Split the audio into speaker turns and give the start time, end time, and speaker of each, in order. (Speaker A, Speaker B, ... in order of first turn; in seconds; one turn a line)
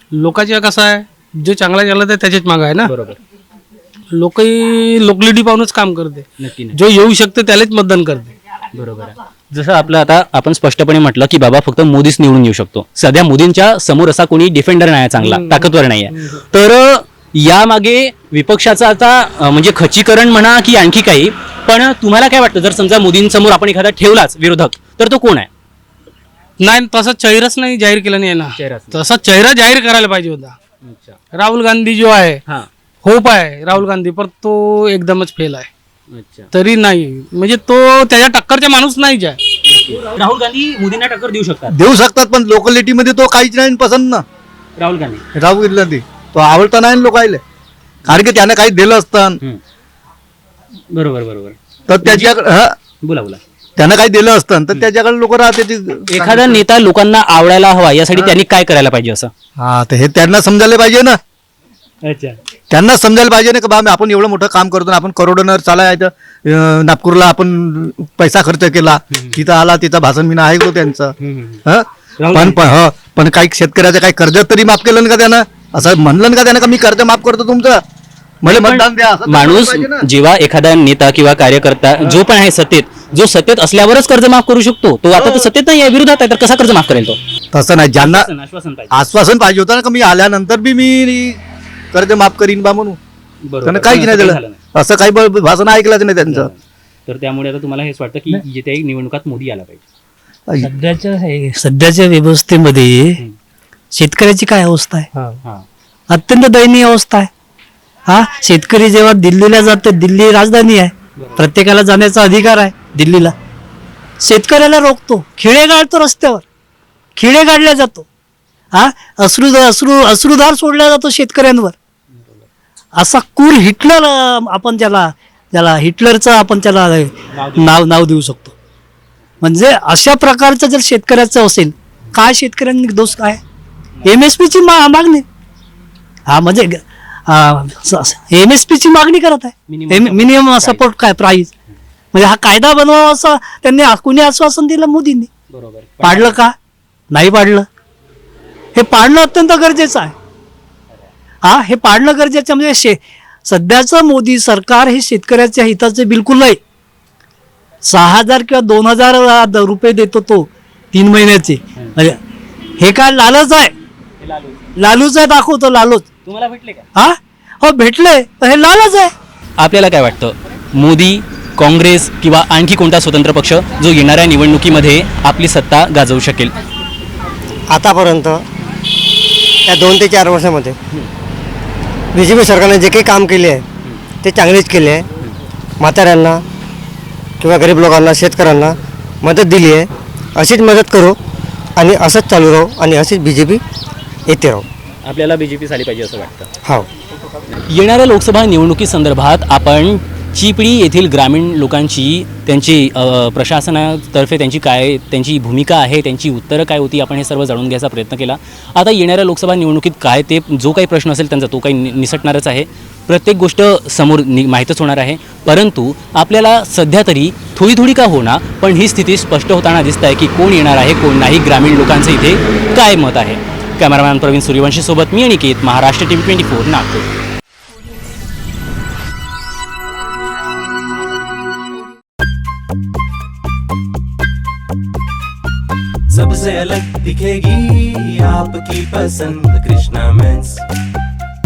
Speaker A: 0.1-2.9
Speaker B: 2.9-3.2
Speaker A: 4.1-8.3
Speaker B: 6.4-6.8
Speaker B: 8.7-25.5
Speaker A: 15.2-15.7
Speaker A: 26.6-30.6
Speaker B: 28.6-29.0
Speaker B: 30.8-31.2
Speaker A: 31.3-32.4
Speaker A: 33.0-35.7
Speaker B: 36.1-36.5
Speaker A: 36.5-39.4
Speaker B: 39.7-41.8
Speaker C: 41.7-44.2
Speaker B: 44.8-45.2
Speaker C: 45.4-47.4
Speaker C: 48.1-49.4
Speaker B: 50.9-52.3
Speaker C: 51.9-52.8
Speaker B: 53.0-53.4
Speaker C: 53.8-56.6
Speaker B: 56.1-59.3
Speaker C: 59.6-61.2
Speaker B: 62.0-62.4
Speaker C: 62.7-71.1
Speaker B: 69.1-69.4
Speaker B: 71.2-71.6
Speaker C: 71.7-77.8
Speaker B: 72.2-72.6
Speaker C: 78.4-80.0
Speaker B: 78.5-87.2
Speaker C: 85.2-85.5
Speaker C: 87.5-88.3
Speaker B: 88.0-89.1
Speaker C: 88.9-91.4
Speaker C: 91.9-93.0
Speaker B: 93.5-94.6
Speaker C: 93.6-96.5
Speaker B: 96.3-99.8
Speaker D: 100.6-103.2
Speaker D: 103.9-105.1
Speaker D: 106.1-107.3
Speaker D: 108.1-113.3
Speaker B: 111.2-111.4
Speaker D: 114.2-116.4
Speaker D: 117.2-118.1
Speaker D: 118.7-121.8
Speaker B: 122.1-122.5
Speaker D: 123.0-128.6
Speaker B: 127.3-127.8
Speaker D: 129.4-133.4
Speaker D: 134.0-135.3
Speaker D: 136.3-141.5
Speaker B: 139.7-140.8
Speaker D: 142.1-145.3
Speaker B: 145.5-146.4
Speaker D: 146.0-146.6
Speaker D: 147.1-147.7
Speaker D: 148.8-150.2
Speaker D: 151.4-156.6
Speaker D: 157.9-162.2
Speaker D: 162.8-163.7
Speaker B: 164.2-164.7
Speaker D: 164.8-166.1
Speaker B: 166.3-166.8
Speaker D: 166.9-169.1
Speaker B: 169.6-176.5
Speaker E: 177.7-178.4
Speaker E: 179.7-180.8
Speaker E: 182.1-183.7
Speaker E: 184.2-185.1
Speaker E: 185.8-186.4
Speaker E: 187.4-191.2
Speaker E: 191.8-193.6
Speaker E: 194.3-194.7
Speaker B: 195.1-196.5
Speaker B: 197.7-227.1
Speaker F: 236.1-240.6